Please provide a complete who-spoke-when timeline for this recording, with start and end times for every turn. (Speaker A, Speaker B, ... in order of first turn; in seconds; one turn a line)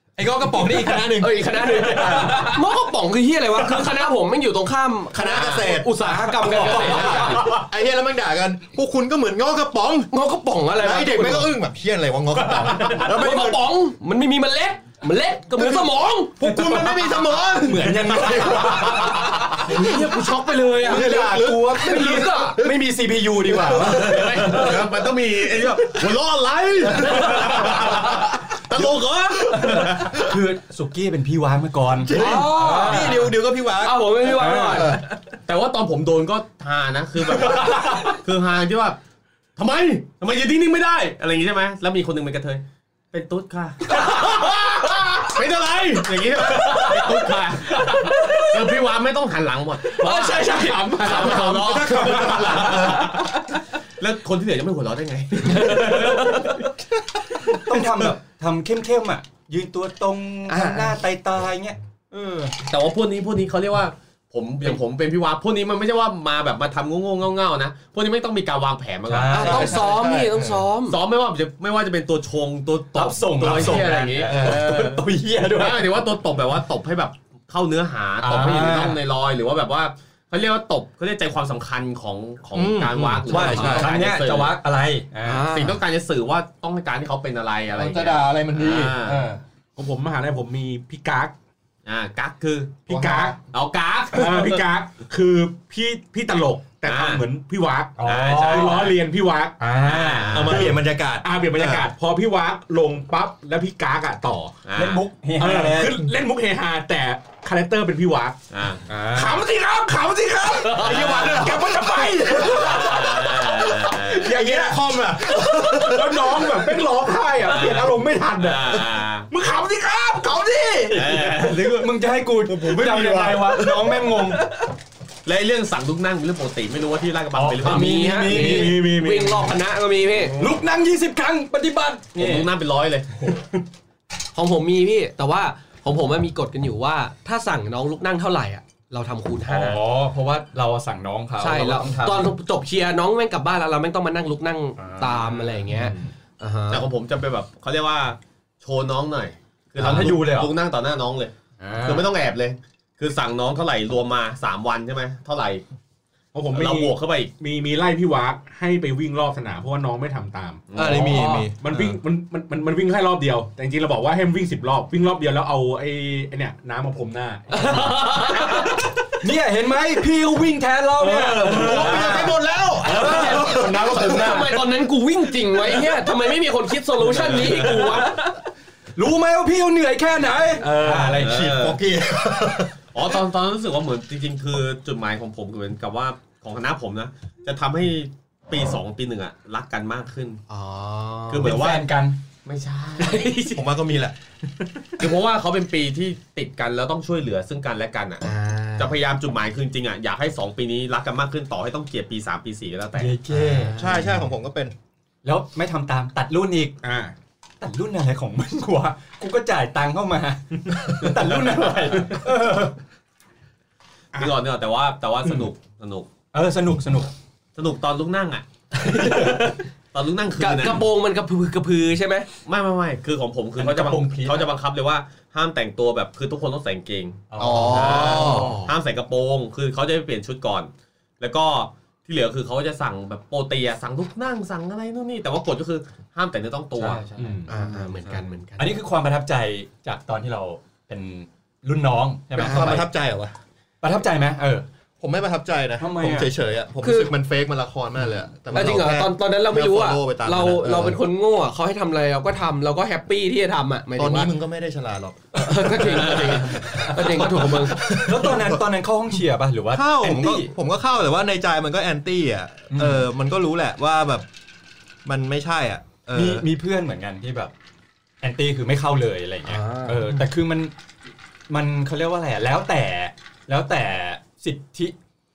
Speaker A: 0.2-2.6
Speaker B: 0.8-7.6
Speaker A: 5.1-10.1
Speaker C: 6.3-7.7
Speaker B: 10.1-11.5
Speaker A: 10.8-13.7
Speaker B: 12.8-16.5
Speaker A: 15.6-20.2
Speaker C: 16.4-19.7
Speaker B: 18.2-22.9
Speaker A: 20.8-22.8
Speaker C: 20.8-24.8
Speaker A: 23.4-24.7
Speaker B: 23.6-24.9
Speaker D: 23.8-30.2
Speaker A: 27.0-28.1
Speaker A: 29.5-30.1
Speaker C: 29.7-33.2
Speaker A: 32.0-35.0
Speaker B: 32.1-35.1
Speaker C: 34.3-35.0
Speaker D: 35.5-39.0
Speaker C: 37.6-37.9
Speaker D: 39.6-53.3
Speaker B: 44.0-44.3
Speaker B: 46.6-47.0
Speaker B: 47.8-48.6
Speaker B: 49.9-51.7
Speaker E: 50.5-52.8
Speaker A: 52.1-53.2
Speaker B: 52.7-53.2
Speaker D: 54.0-56.5
Speaker B: 55.4-56.6
Speaker C: 57.4-61.8
Speaker A: 57.8-58.1
Speaker B: 60.5-61.0
Speaker A: 62.1-62.5
Speaker D: 62.6-69.9
Speaker C: 69.1-69.8
Speaker B: 69.3-71.0
Speaker A: 69.3-70.7
Speaker D: 70.9-84.5
Speaker C: 72.9-75.9
Speaker A: 74.3-74.6
Speaker C: 78.2-79.0
Speaker A: 82.5-83.9
Speaker C: 83.3-85.4
Speaker B: 85.2-85.8
Speaker D: 85.5-89.3
Speaker A: 87.7-89.4
Speaker E: 89.8-91.3
Speaker D: 91.8-94.6
Speaker E: 92.9-93.4
Speaker A: 92.9-93.3
Speaker E: 94.1-99.7
Speaker D: 96.8-97.2
Speaker C: 98.0-98.9
Speaker D: 98.0-98.9
Speaker C: 99.6-100.8
Speaker D: 99.8-100.7
Speaker A: 100.3-101.9
Speaker E: 100.5-104.6
Speaker D: 104.6-105.0
Speaker C: 104.7-106.1
Speaker E: 105.3-108.4
Speaker D: 108.5-108.9
Speaker C: 108.9-109.4
Speaker E: 108.9-121.1
Speaker D: 110.7-111.5
Speaker C: 110.8-111.3
Speaker D: 112.4-114.4
Speaker A: 114.3-116.5
Speaker D: 117.4-119.3
Speaker C: 120.7-124.5
Speaker D: 120.9-121.9
Speaker E: 122.5-124.2
Speaker D: 125.2-128.8
Speaker C: 127.3-129.5
Speaker B: 127.6-130.3
Speaker C: 130.3-132.5
Speaker D: 132.1-133.4
Speaker B: 134.3-139.8
Speaker C: 139.4-142.3
Speaker B: 141.4-146.8
Speaker C: 144.8-146.0
Speaker D: 146.7-155.6
Speaker C: 149.8-150.5
Speaker C: 151.6-152.1
Speaker E: 156.3-160.6
Speaker D: 156.5-157.3
Speaker D: 160.7-161.3
Speaker A: 160.7-161.7
Speaker B: 161.0-161.4
Speaker E: 161.5-168.7
Speaker B: 167.5-168.8
Speaker C: 169.2-174.5
Speaker A: 171.0-174.5
Speaker E: 171.1-171.8
Speaker B: 172.9-178.4
Speaker E: 173.0-174.6
Speaker C: 177.1-178.3
Speaker D: 177.1-177.9
Speaker C: 178.9-181.6
Speaker E: 180.6-181.1
Speaker A: 180.9-182.8
Speaker D: 181.0-181.8
Speaker D: 182.9-190.4
Speaker B: 190.5-191.6
Speaker D: 191.3-191.9
Speaker C: 191.4-192.2
Speaker D: 192.4-193.3
Speaker B: 193.0-193.6
Speaker A: 193.5-194.2
Speaker D: 195.0-203.9
Speaker B: 198.2-198.9
Speaker C: 202.9-203.8
Speaker A: 203.7-204.7
Speaker C: 205.2-206.8
Speaker E: 206.8-207.1
Speaker C: 207.6-212.8
Speaker D: 214.1-216.1
Speaker C: 216.3-217.1
Speaker D: 217.6-219.4
Speaker B: 218.7-219.6
Speaker D: 219.9-220.8
Speaker B: 220.4-222.3
Speaker D: 222.4-238.3
Speaker C: 223.6-224.5
Speaker C: 227.3-228.6
Speaker A: 227.4-228.6
Speaker B: 227.4-228.7
Speaker C: 236.8-237.5
Speaker E: 237.2-237.5
Speaker B: 237.5-238.8
Speaker C: 238.6-242.9
Speaker B: 242.3-242.8
Speaker A: 242.4-243.3
Speaker C: 243.8-244.7
Speaker A: 245.0-251.0
Speaker C: 245.8-246.3
Speaker B: 246.8-247.1
Speaker B: 248.5-254.3
Speaker A: 253.9-258.6
Speaker B: 255.3-258.0
Speaker D: 255.8-256.6
Speaker C: 256.7-260.5
Speaker A: 259.7-264.2
Speaker C: 262.7-263.1
Speaker A: 265.0-266.5
Speaker C: 266.1-267.5
Speaker C: 268.2-270.7
Speaker B: 269.4-270.1
Speaker C: 271.5-274.9